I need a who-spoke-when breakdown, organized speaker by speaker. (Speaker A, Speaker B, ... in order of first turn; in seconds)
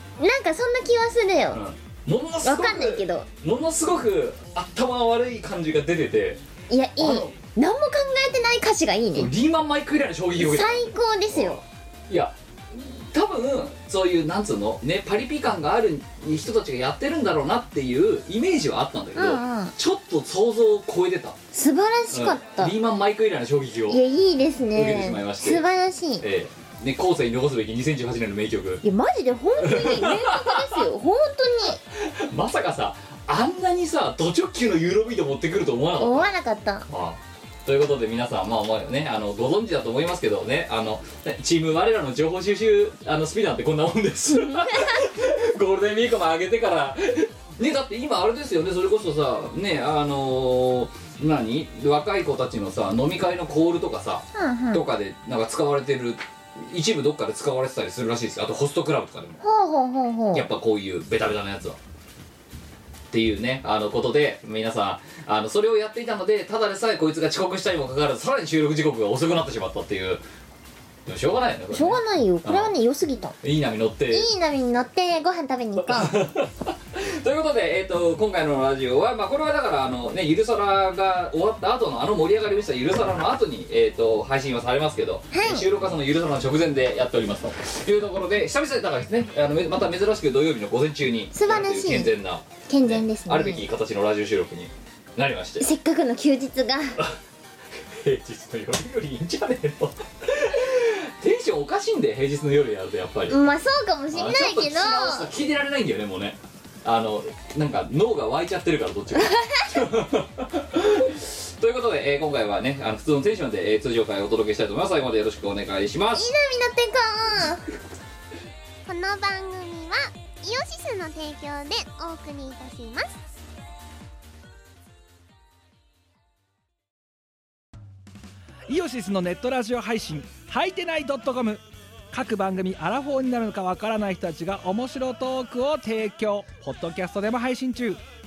Speaker A: 0.2-1.6, 2.4-3.3, 6.7-9.3, 10.4-11.6, 19.2-19.7, 21.5-22.7, 23.9-26.2, 28.8-31.8, 36.0-36.9, 44.3-45.1, 54.3-54.8, 59.4-60.5, 71.7-73.3, 74.1-76.2, 85.3-85.7, 91.3-92.1, 92.7-93.6, 95.6-97.0, 103.3-105.3, 109.2-109.8, 116.2-117.7, 118.9-123.2
Speaker B: 1.5-6.4, 7.0-7.3, 9.1-21.4, 22.1-24.0, 24.7-25.6, 26.2-28.8, 29.6-30.9, 31.9-36.3, 36.9-59.4, 60.3-61.8, 63.1-70.2, 71.1-72.7, 73.4-74.3, 75.8-95.7, 97.9-103.3, 104.1-116.3
Speaker C: 128.7-131.6, 132.1-138.0